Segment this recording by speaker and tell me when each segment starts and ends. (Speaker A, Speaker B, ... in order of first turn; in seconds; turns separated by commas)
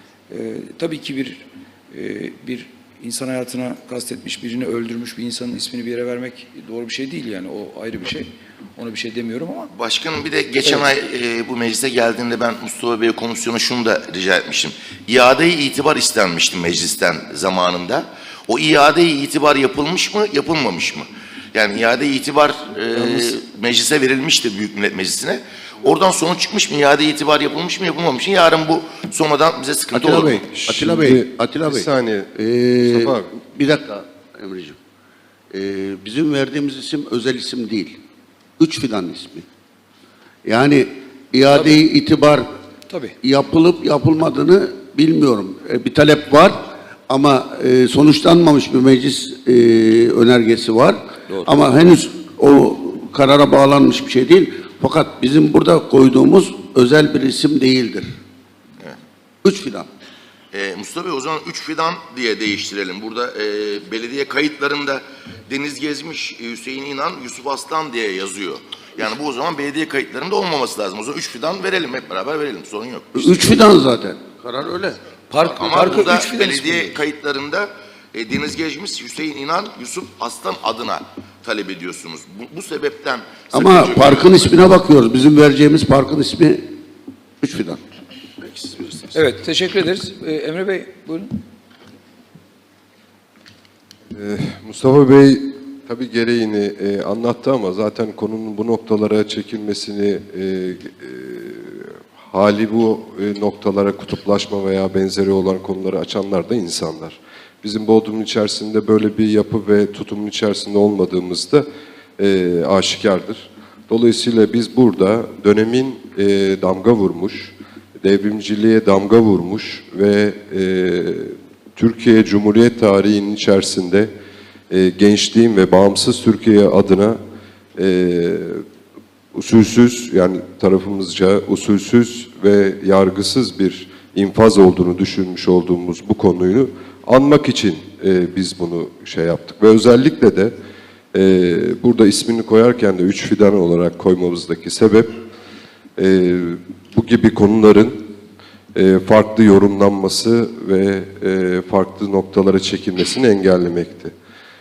Speaker A: 0.3-9.7, Speaker B: 9.7-30.4, Speaker C: 29.9-34.8, Speaker D: 30.2-33.3, Speaker C: 35.5-38.0, Speaker C: 38.6-39.5, Speaker C: 40.5-42.5, Speaker A: 42.9-43.2, Speaker C: 43.2-58.1, Speaker A: 51.3-51.6, Speaker C: 59.4-59.9, Speaker B: 60.5-73.6, Speaker C: 73.2-75.0, Speaker A: 75.3-76.9, Speaker B: 75.4-84.7, Speaker C: 75.7-76.0, Speaker C: 83.5-86.7, Speaker C: 87.4-87.8, Speaker B: 88.4-89.1, Speaker A: 89.1-91.4, Speaker D: 94.1-111.7, Speaker D: 112.2-124.1, Speaker D: 124.7-127.2, Speaker D: 127.8-128.6, Speaker D: 129.3-140.5, Speaker D: 141.1-145.1, Speaker D: 146.0-148.1, Speaker D: 148.7-154.1